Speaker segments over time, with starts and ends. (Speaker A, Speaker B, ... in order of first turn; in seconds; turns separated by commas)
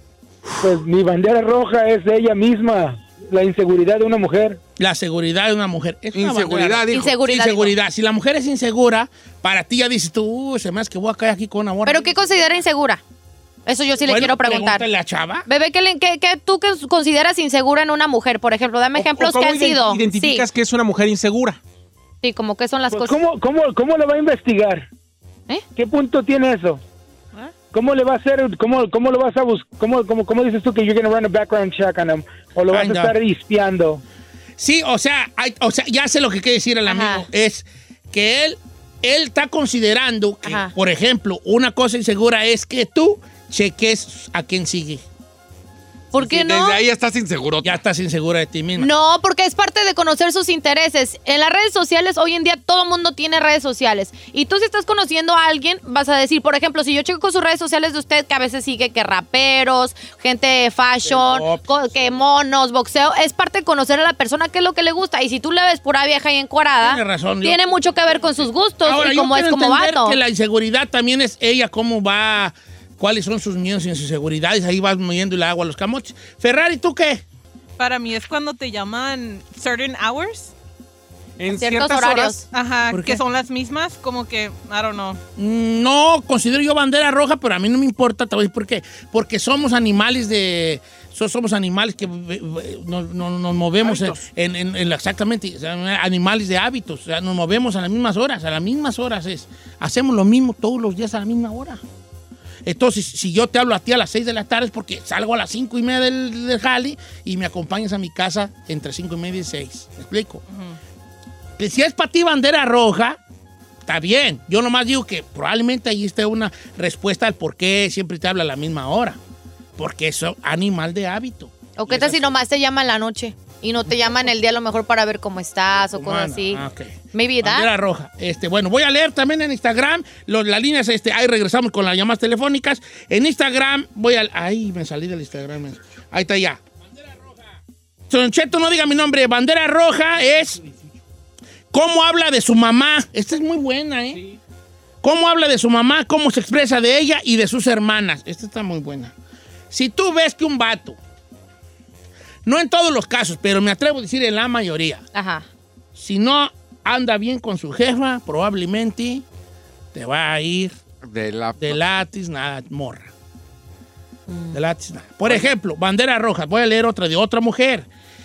Speaker A: 0.6-4.6, Speaker B: 4.8-12.1, Speaker C: 6.1-7.2, Speaker D: 6.9-7.8, Speaker D: 11.8-13.0, Speaker D: 13.7-14.8, Speaker B: 14.0-15.4, Speaker D: 15.5-20.5, Speaker E: 18.9-21.6, Speaker D: 22.2-23.2, Speaker A: 22.9-24.9, Speaker A: 25.8-26.8, Speaker A: 27.7-34.0, Speaker B: 32.7-33.1, Speaker B: 34.6-45.0, Speaker D: 36.9-37.3, Speaker D: 40.4-40.7, Speaker D: 46.1-46.8, Speaker C: 46.1-47.8, Speaker B: 47.6-48.9, Speaker D: 48.8-70.2, Speaker B: 61.0-62.1, Speaker B: 66.8-67.6, Speaker B: 68.8-77.2, Speaker F: 77.8-80.5, Speaker E: 81.4-82.4, Speaker D: 81.5-82.5, Speaker F: 82.5-85.2, Speaker B: 82.9-83.2, Speaker B: 85.3-101.8, Speaker E: 93.8-94.2, Speaker B: 102.6-110.4, Speaker F: 110.5-110.8, Speaker B: 111.6-113.2, Speaker B: 113.9-119.2, Speaker B: 119.8-122.4, Speaker D: 121.8-127.7, Speaker B: 125.9-137.5, Speaker B: 138.1-140.6, Speaker B: 141.7-144.2, Speaker B: 145.0-149.1, Speaker B: 149.7-151.0, Speaker B: 152.4-155.1, Speaker D: 155.1-155.4, Speaker B: 155.9-159.2, Speaker B: 159.9-160.8, Speaker C: 161.0-161.8, Speaker B: 161.6-163.1, Speaker D: 164.3-164.6, Speaker B: 164.5-167.8, Speaker C: 165.3-165.5